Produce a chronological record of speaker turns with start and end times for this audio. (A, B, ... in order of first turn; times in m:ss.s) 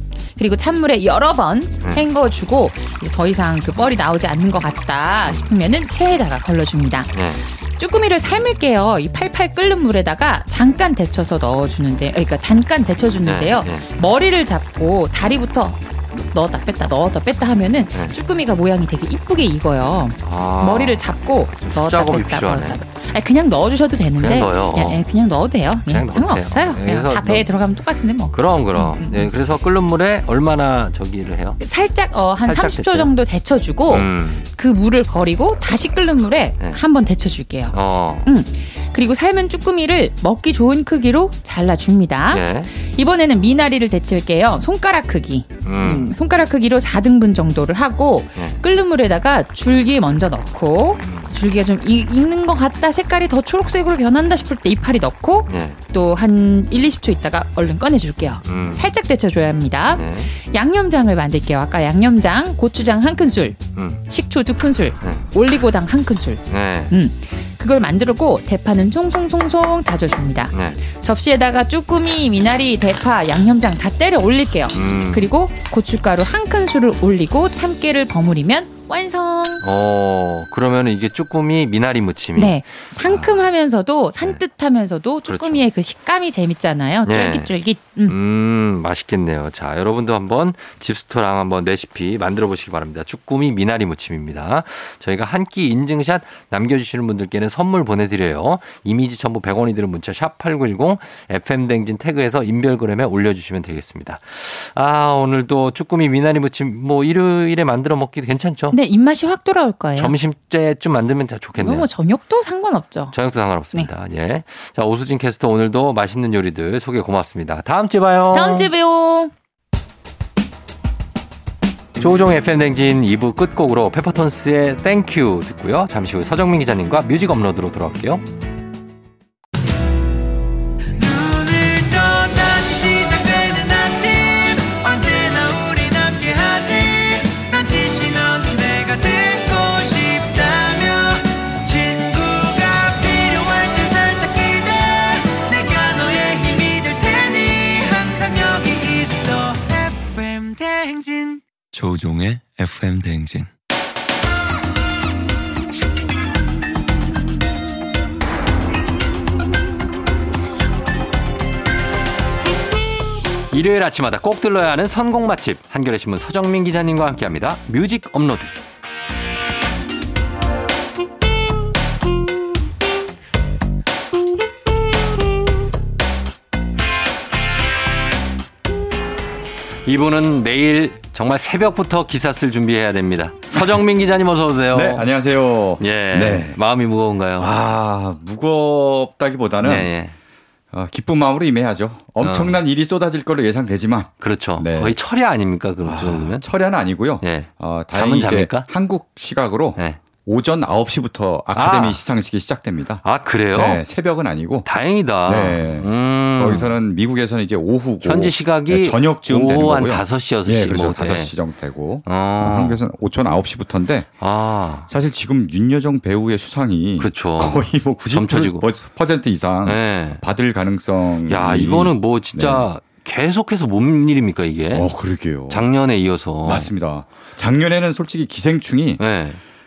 0:00.4-0:29.3 A
0:07.1-0:07.4 B
0:13.2-0:13.8 B
0:20.2-0:21.0 B
0:21.6-0:22.8 B
0:24.2-0:25.0 B
0:25.9-0:27.7 B
0:28.3-0:31.6 B
0:31.6-1:19.6 A
0:32.4-0:33.1 B
0:33.9-0:34.4 B
0:37.7-0:38.3 B
0:42.3-0:42.7 B
0:45.6-0:46.1 B
0:51.0-0:51.3 B
0:55.5-0:55.8 B
0:58.4-0:58.8 B
1:00.0-1:00.3 B
1:03.8-1:04.0 B
1:05.0-1:05.3 B
1:06.5-1:06.9 B
1:10.5-1:10.8 B
1:14.7-1:15.3 B
1:19.6-1:23.5 B
1:22.4-1:28.2 A
1:25.3-1:25.6 B
1:27.1-1:27.5 B
1:28.1-1:48.8 B
1:48.7-1:50.1 A
1:50.0-1:51.9 B
1:51.6-1:53.2 A
1:53.1-1:58.7 B
1:58.3-1:59.3 A
2:02.0-2:08.2 B
2:11.0-2:33.5 C
2:43.5-2:48.5 B
2:59.9-3:05.1 B
3:04.7-3:06.6 D
3:05.8-3:07.5 B
3:07.4-3:09.9 D
3:09.6-3:10.2 B
3:10.7-3:15.0 D
3:12.2-3:12.6 B
3:14.2-3:16.4 B
3:15.8-3:23.0 D
3:17.2-3:18.7 B
3:21.6-3:22.0 B
3:23.0-3:23.8 B
3:23.5-3:24.7 D
3:24.6-3:26.7 B
3:25.3-3:34.1 D
3:28.0-3:31.3 B
3:32.1-3:32.8 B
3:34.2-3:34.9 B
3:34.9-3:42.7 D
3:37.0-3:38.6 B
3:39.6-3:40.2 B
3:41.3-3:44.9 B
3:44.7-3:45.6 D
3:45.5-3:46.7 B
3:46.4-3:49.0 D
3:49.0-3:49.4 B